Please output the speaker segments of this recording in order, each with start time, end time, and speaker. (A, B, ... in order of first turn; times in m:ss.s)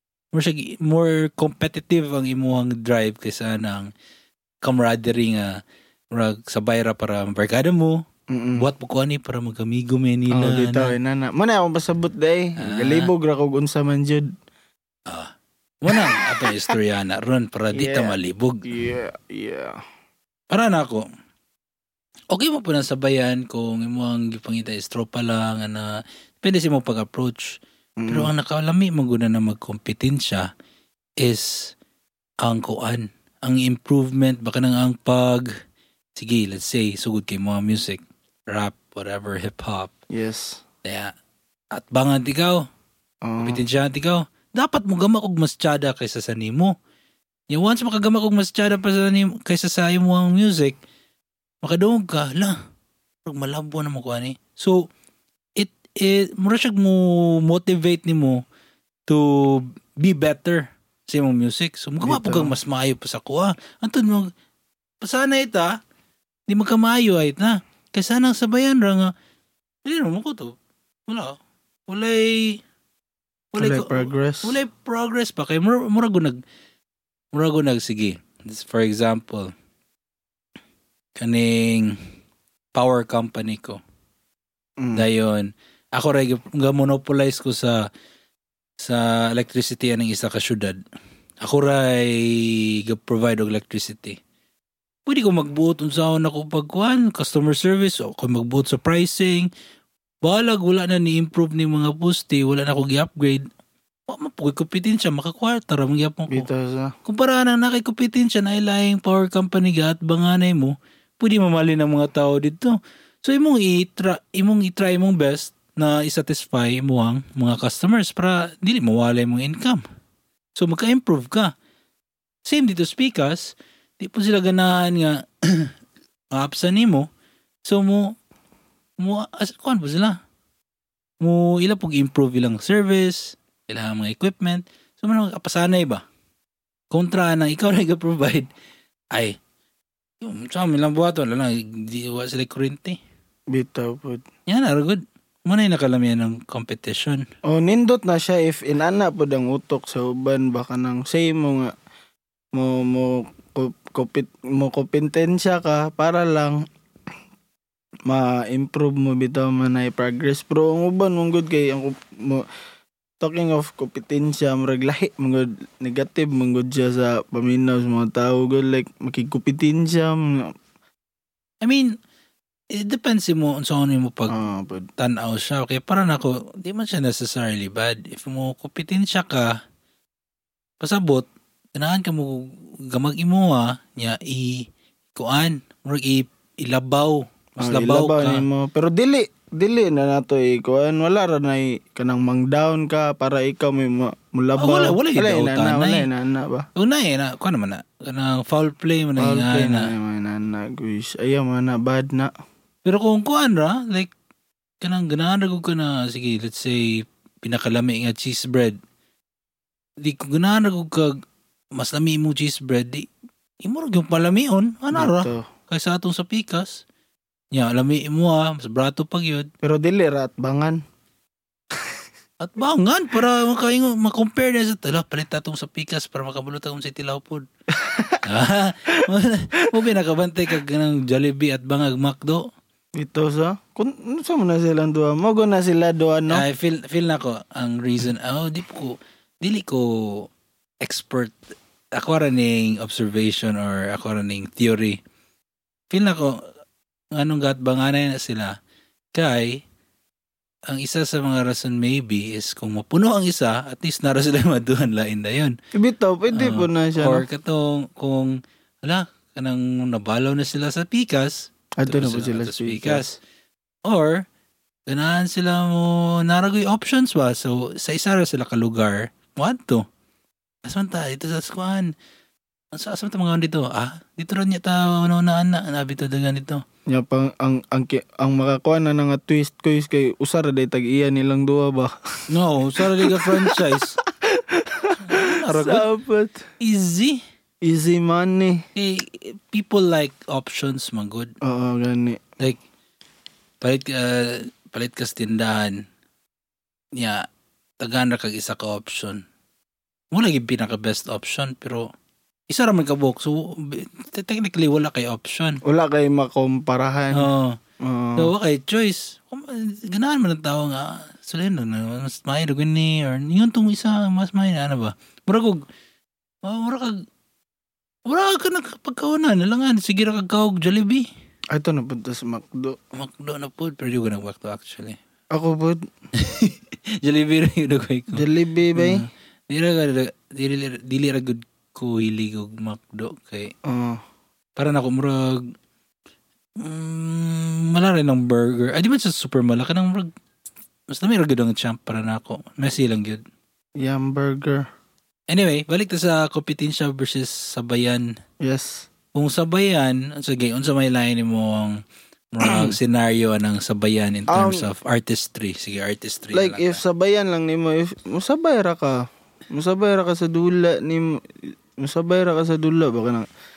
0:00.3-0:03.9 A
0:04.6-0:05.6 A
0:06.1-0:08.0 A
0:08.3-0:08.7 B
0:08.6-0:10.9 A
0:10.3-0:14.3 B
0:12.6-0:13.1 A
0:15.1-0:18.6 A
0:15.9-0:16.8 B
0:17.8-0:19.8 B
0:20.5-0:21.1 A
0:22.3-0:30.5 A
0:28.0-0:28.3 B
0:31.2-0:31.8 A
0:32.4-0:35.5 A
0:36.2-0:39.9 A
0:40.1-0:40.6 B
0:40.8-0:41.1 A
0:41.7-0:42.7 A
0:43.2-0:43.6 B
0:43.4-0:46.7 A
0:47.5-0:50.8 A
0:51.6-0:52.6 A
0:53.2-0:54.9 A
0:55.6-0:58.4 A
0:59.1-1:04.3 A
1:02.0-1:02.5 B
1:05.0-1:05.8 A
1:06.5-1:09.1 A
1:09.9-1:10.6 A
1:11.1-1:12.6 A
1:13.5-1:16.4 A
1:13.6-1:14.6 B
1:17.3-1:19.5 A
1:21.2-1:22.0 A
1:22.7-1:23.8 A
1:24.8-1:25.0 B
1:25.0-1:27.8 A
1:28.8-1:30.8 A
1:31.4-1:34.2 A
1:35.1-1:39.5 A
1:40.2-1:43.5 A
1:44.1-1:46.5 A
1:46.3-1:46.9 B
1:47.0-1:59.8 A
2:00.6-2:01.5 A
2:02.4-2:05.7 A
2:06.3-2:07.1 A
2:07.7-2:08.2 A
2:09.0-2:10.2 A
2:11.2-2:16.0 A
2:16.9-2:18.5 A
2:20.2-2:23.0 A
2:23.5-2:24.2 B
2:24.5-2:27.2 A
2:27.5-2:31.7 B
2:32.5-2:36.6 B
2:38.1-2:42.5 B
2:43.2-2:50.5 B
2:51.6-2:51.9 A
2:52.7-2:54.4 A
2:54.3-2:54.9 B
2:55.0-2:59.6 A
3:00.8-3:08.4 A
3:07.6-3:16.7 B
3:14.6-3:16.1 A
3:16.8-3:19.9 A
3:19.2-3:22.3 B
3:22.8-3:24.1 A
3:24.8-3:28.8 A
3:30.0-3:31.2 A
3:31.8-3:33.1 A
3:33.6-3:36.8 A
3:34.9-3:35.5 B
3:37.5-3:39.5 A
3:39.6-3:40.8 B
3:42.4-3:47.5 A
3:47.8-3:48.2 B
3:48.2-3:52.4 A
3:53.0-3:56.4 B
3:56.3-4:00.3 A
4:00.8-4:01.4 A
4:02.0-4:05.0 A
4:05.9-4:06.4 A
4:07.2-4:08.5 A
4:09.2-4:09.6 A
4:10.7-4:15.6 A
4:15.8-4:17.2 B
4:16.3-4:23.2 A
4:21.8-4:23.0 B
4:23.9-4:24.2 A
4:24.9-4:29.8 A
4:30.6-4:31.9 A
4:32.7-4:36.6 A
4:36.9-4:42.2 B
4:42.3-4:44.0 A
4:42.8-4:46.4 B
4:45.0-4:45.9 A
4:46.6-4:47.2 A
4:47.6-4:48.6 B
4:48.8-4:51.3 A
4:51.4-4:52.2 B
4:53.6-4:55.8 A
4:57.0-4:57.2 A
4:57.8-4:59.2 A
5:00.1-5:01.9 A
5:02.5-5:05.6 A
5:05.6-5:07.3 B
5:07.1-5:07.6 A
5:07.8-5:08.3 B
5:08.2-5:15.6 A
5:16.4-5:17.0 A
5:18.1-5:21.1 A
5:21.5-5:22.8 B
5:23.0-5:25.0 A
5:25.3-5:25.8 B
5:26.2-5:33.5 A
5:28.1-5:29.0 B
5:33.7-5:34.0 B
5:34.6-5:35.4 A
5:36.6-5:40.1 A
5:40.9-5:43.2 A
5:43.8-5:44.7 B
5:45.3-5:48.1 A
5:48.4-5:48.9 B
5:49.2-5:51.8 A
5:52.3-5:56.8 A
5:52.4-5:52.8 B
5:54.3-5:54.7 B
5:56.3-6:01.2 B
6:01.8-6:03.3 B